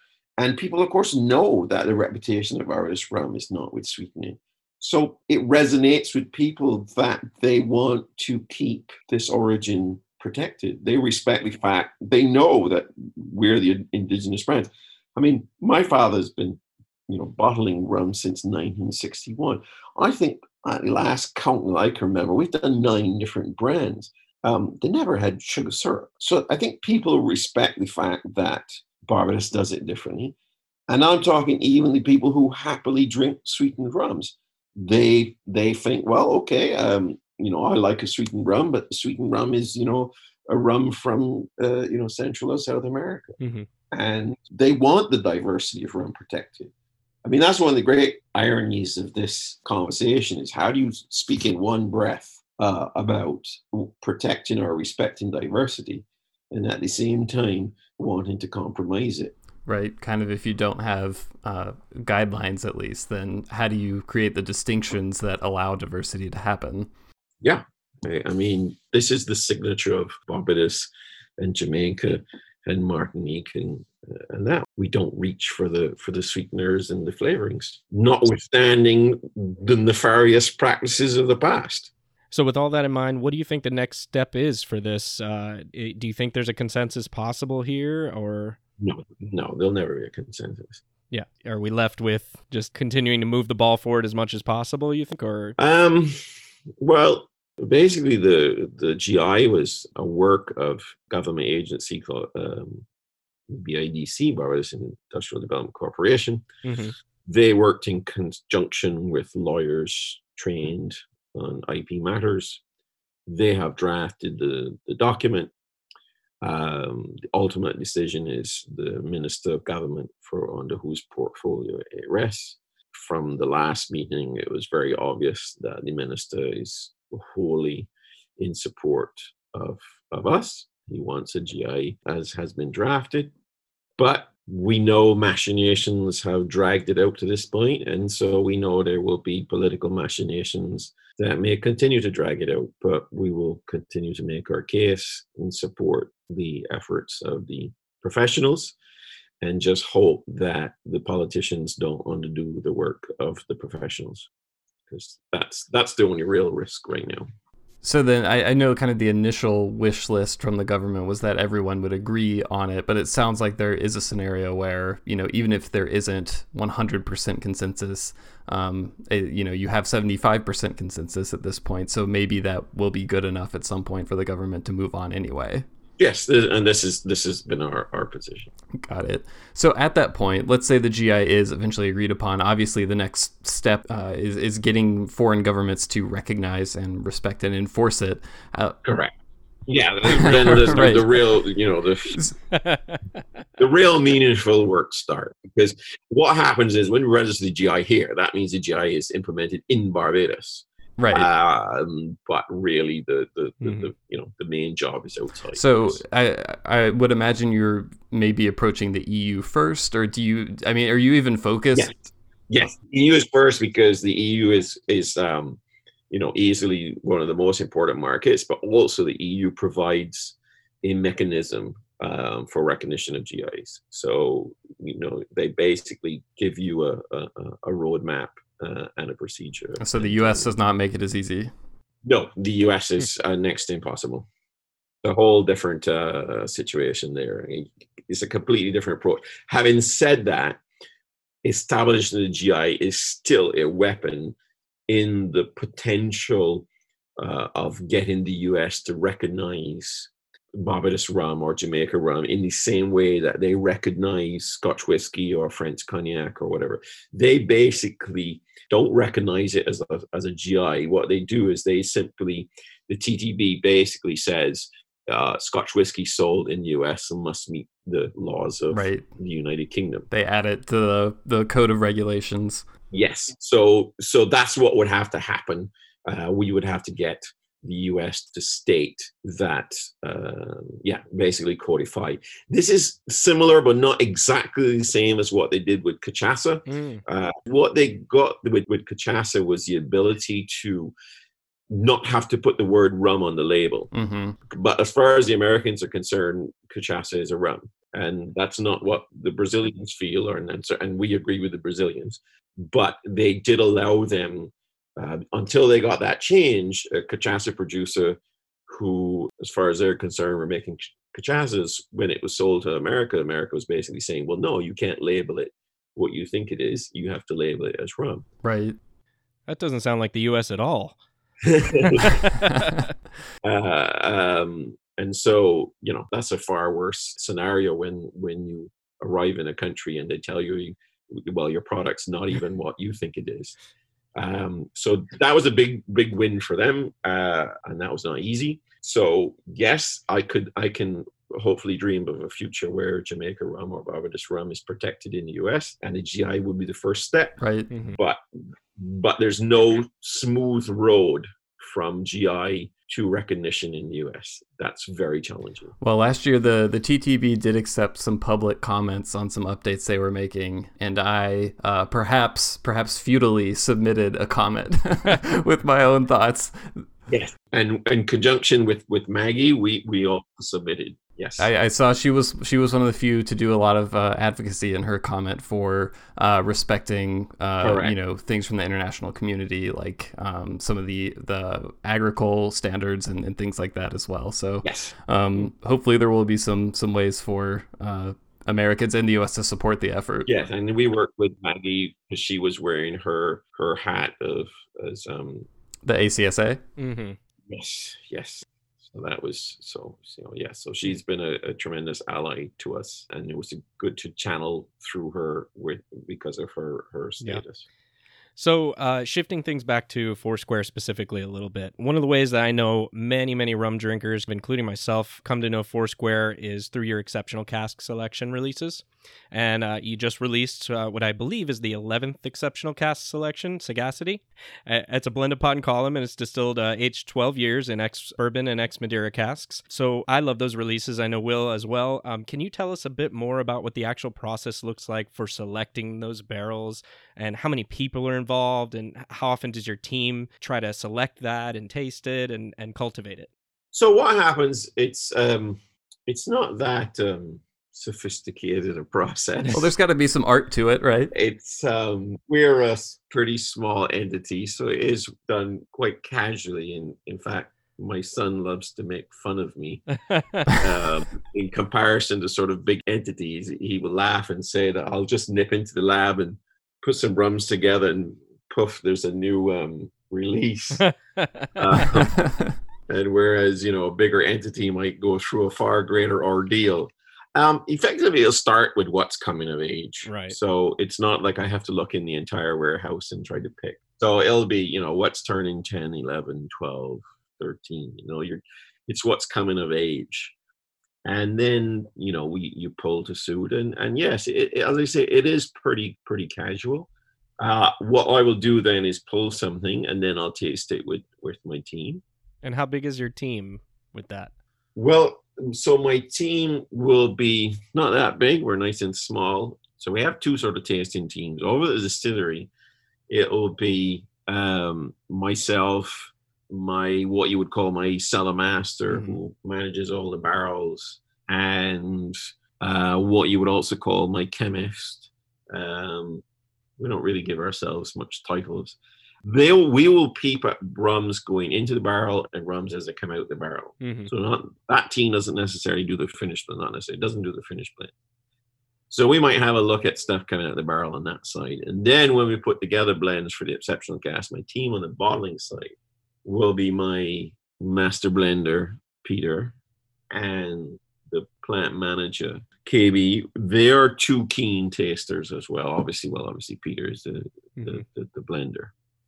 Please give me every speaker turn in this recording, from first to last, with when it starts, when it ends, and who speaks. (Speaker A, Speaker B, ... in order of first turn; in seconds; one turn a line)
Speaker A: 0.4-30.3
Speaker A: 30.9-43.4
Speaker B: 43.4-43.7
Speaker A: 43.9-46.7
Speaker A: 47.2-59.3
Speaker C: 59.6-66.9
Speaker A: 67.4-81.9
Speaker B: 82.3-88.6
Speaker A: 88.8-90.8
Speaker B: 91.1-95.5
Speaker A: 95.6-102.8
Speaker A: 103.5-106.5
Speaker B: 106.6-106.9
Speaker A: 107.2-112.6
Speaker A: 113.3-115.5
Speaker A: 116.4-133.3
Speaker A: 134.0-148.8
Speaker A: 149.4-154.3
Speaker A: 154.9-157.3
Speaker C: 157.8-175.6
Speaker A: 176.0-178.5
Speaker C: 178.8-188.8
Speaker A: 188.8-189.1
Speaker A: 189.7-192.2
Speaker C: 190.1-191.1
Speaker B: 192.5-193.0
Speaker A: 193.6-206.0
Speaker C: 201.0-201.3
Speaker B: 203.6-203.9
Speaker C: 205.5-211.9
Speaker A: 212.5-230.5
Speaker C: 229.8-231.5
Speaker A: 232.0-234.3
Speaker A: 235.0-240.6
Speaker A: 241.4-244.3
Speaker A: 244.9-246.7
Speaker A: 247.2-270.1
Speaker C: 268.7-269.1
Speaker C: 270.1-272.7
Speaker A: 272.9-290.9
Speaker B: 286.7-287.0
Speaker A: 291.7-293.9
Speaker C: 293.9-294.4
Speaker A: 294.5-318.2
Speaker C: 318.4-318.8
Speaker B: 319.5-320.9
Speaker A: 321.4-322.3
Speaker B: 322.0-322.9
Speaker C: 322.5-322.8
Speaker A: 323.4-333.6
Speaker A: 334.1-347.4
Speaker C: 347.4-347.7
Speaker B: 347.7-348.0
Speaker A: 347.9-348.2
Speaker A: 348.8-355.7
Speaker C: 355.8-366.8
Speaker A: 367.1-371.5
Speaker C: 371.4-390.3
Speaker A: 377.6-377.9
Speaker A: 384.6-384.9
Speaker A: 390.3-395.5
Speaker C: 395.8-396.6
Speaker B: 396.8-397.2
Speaker A: 397.5-407.6
Speaker B: 408.4-443.3
Speaker A: 443.7-449.7
Speaker C: 449.5-451.1
Speaker A: 451.1-459.9
Speaker B: 460.0-460.5
Speaker A: 460.4-470.9
Speaker B: 470.8-471.9
Speaker A: 471.6-472.2
Speaker C: 472.0-472.6
Speaker A: 472.9-490.3
Speaker B: 480.0-480.3
Speaker A: 491.0-502.0
Speaker B: 502.4-504.3
Speaker A: 504.8-512.5
Speaker A: 513.1-526.2
Speaker B: 518.9-519.2
Speaker A: 526.8-537.9
Speaker B: 533.8-534.1
Speaker A: 538.9-545.7
Speaker A: 546.2-549.5
Speaker A: 550.1-558.7
Speaker B: 557.6-557.8